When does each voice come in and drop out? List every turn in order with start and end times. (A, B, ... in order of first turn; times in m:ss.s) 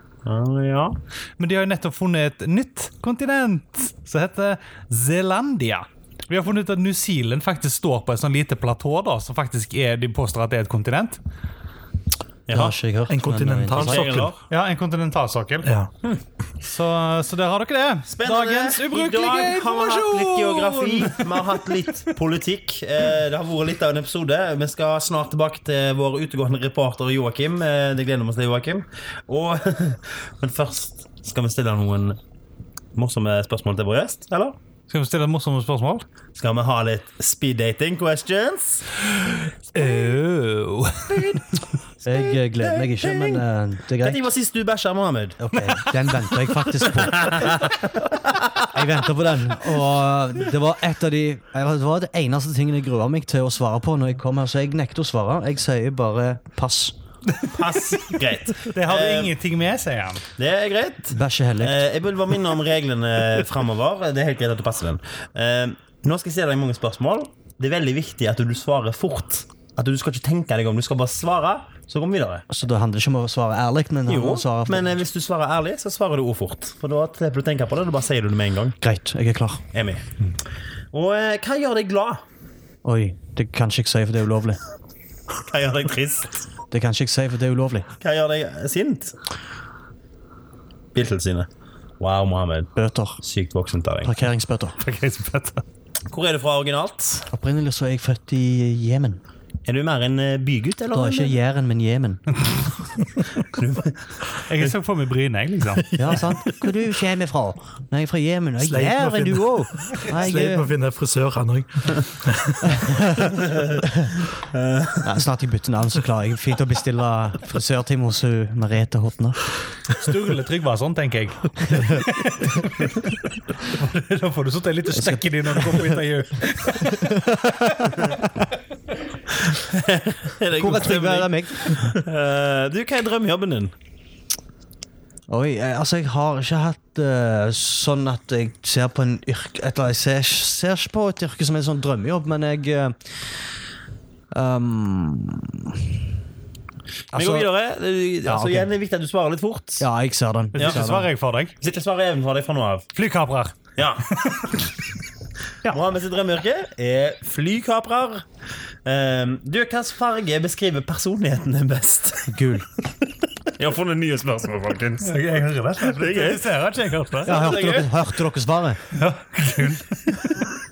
0:00.2-0:01.0 A
0:01.4-0:11.2 B
0:12.5-0:12.8 A
0:12.5-0:14.3 C
0:13.1-0:14.3 D
0:13.7-0:14.4 A
0:14.5-0:15.7 B
0:15.6-0:15.9 D
0:16.6-0:21.6 B
0:18.1-0:32.2 A
0:33.0-0:34.6 A
0:34.9-0:36.0 B
0:36.4-0:38.9 A
0:39.7-0:41.4 B
0:41.1-0:41.4 A
0:42.0-0:43.4 A
0:42.0-0:44.2 C
0:44.0-0:45.4 A
0:45.4-0:47.7 C
0:46.9-0:48.8 A
0:48.7-0:57.0 C
0:57.4-0:58.0 B
0:57.5-0:59.3 A
0:58.6-1:00.2 B
1:00.4-1:12.4 A
1:01.1-1:01.8 C
1:12.5-1:15.0 C
1:14.1-1:18.8 A
1:18.8-1:19.6 C
1:19.7-1:20.1 A
1:20.9-1:22.2 A
1:22.8-1:24.6 C
1:25.4-1:26.4 A
1:26.7-1:27.9 C
1:28.0-1:29.2 A
1:31.0-1:31.5 A
1:32.0-1:32.7 A
1:32.8-1:33.2 C
1:33.2-1:34.1 A
1:34.0-1:34.8 C
1:34.8-1:35.6 B
1:36.1-1:37.3 A
1:37.3-1:39.2 C
1:39.7-1:41.4 A
1:40.9-1:42.4 C
1:43.4-1:44.7 A
1:44.5-1:46.0 B
1:46.0-1:50.7 C
1:48.6-1:52.8 D
1:52.7-1:53.3 C
1:53.4-1:53.8 A
1:53.8-1:54.1 C
1:54.5-1:55.2 A
1:55.0-1:59.4 C
2:00.0-2:08.2 B
2:01.7-2:02.0 C
2:04.9-2:06.0 C
2:06.8-2:08.2 C
2:09.6-2:13.7 A
2:10.6-2:12.0 C
2:15.3-2:23.5 C
2:24.3-2:25.8 C
2:27.1-2:27.5 C
2:27.1-2:29.9 A
2:28.2-2:28.7 C
2:29.8-2:31.1 C
2:30.5-2:31.5 B
2:30.6-2:30.9 A
2:31.6-2:32.9 A
2:33.0-2:33.6 B
2:33.8-2:34.2 A
2:34.1-2:34.6 B
2:35.7-2:38.2 A
2:38.8-2:42.3 A
2:42.3-2:42.7 C
2:43.5-2:45.2 A
2:45.0-2:47.6 B
2:45.8-2:46.4 A
2:47.2-2:47.9 A
2:47.3-2:48.8 C
2:48.9-2:50.4 B